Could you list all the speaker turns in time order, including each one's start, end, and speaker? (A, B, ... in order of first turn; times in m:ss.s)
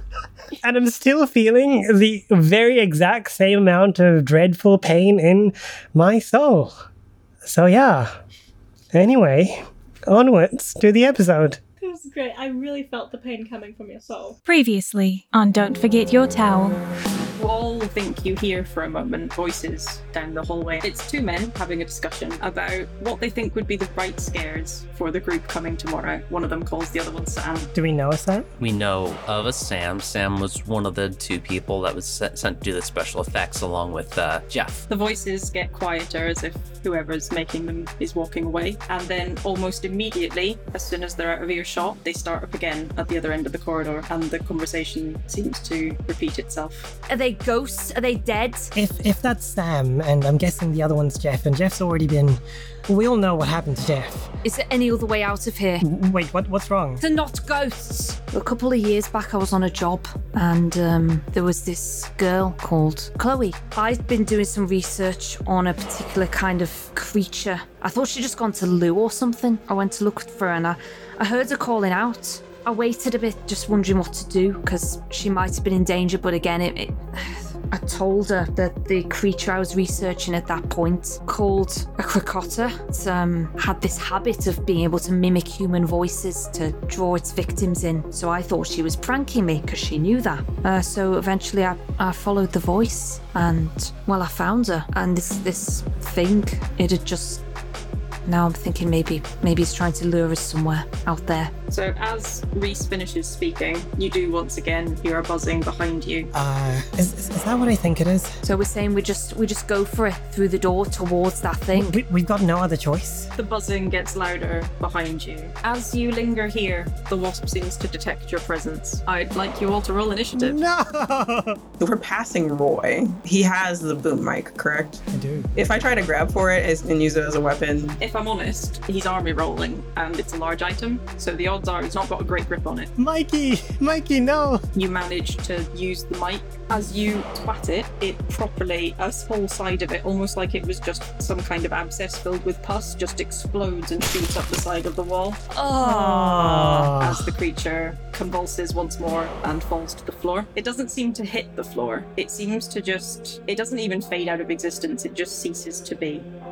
0:00.6-0:06.7 A
0:07.4-0:08.2 A
0:08.9-0:11.6 A
0:11.8-0:14.3 B
0:14.4-0:16.8 C
0:17.4-0:27.7 D
0:27.7-0:28.5 A
0:28.6-0:34.8 E
0:34.9-0:46.9 D
0:47.1-0:48.7 F
0:48.8-0:54.3 A
0:54.4-0:55.8 F
0:55.8-0:57.0 A
0:57.0-1:37.4 F
1:38.3-1:41.5 F
1:41.7-1:46.3 D
1:46.3-1:48.4 A
1:48.4-1:52.0 F
1:51.7-1:53.3 A
1:53.4-2:00.6 D
2:00.4-2:01.6 A
2:01.8-2:05.0 G
2:05.1-2:05.5 A
2:05.6-2:08.0 G
2:08.0-2:12.9 D
2:13.0-2:14.6 A
2:14.8-2:25.4 D
2:25.6-2:26.3 F
2:25.8-2:27.4 A
2:26.5-2:36.3 D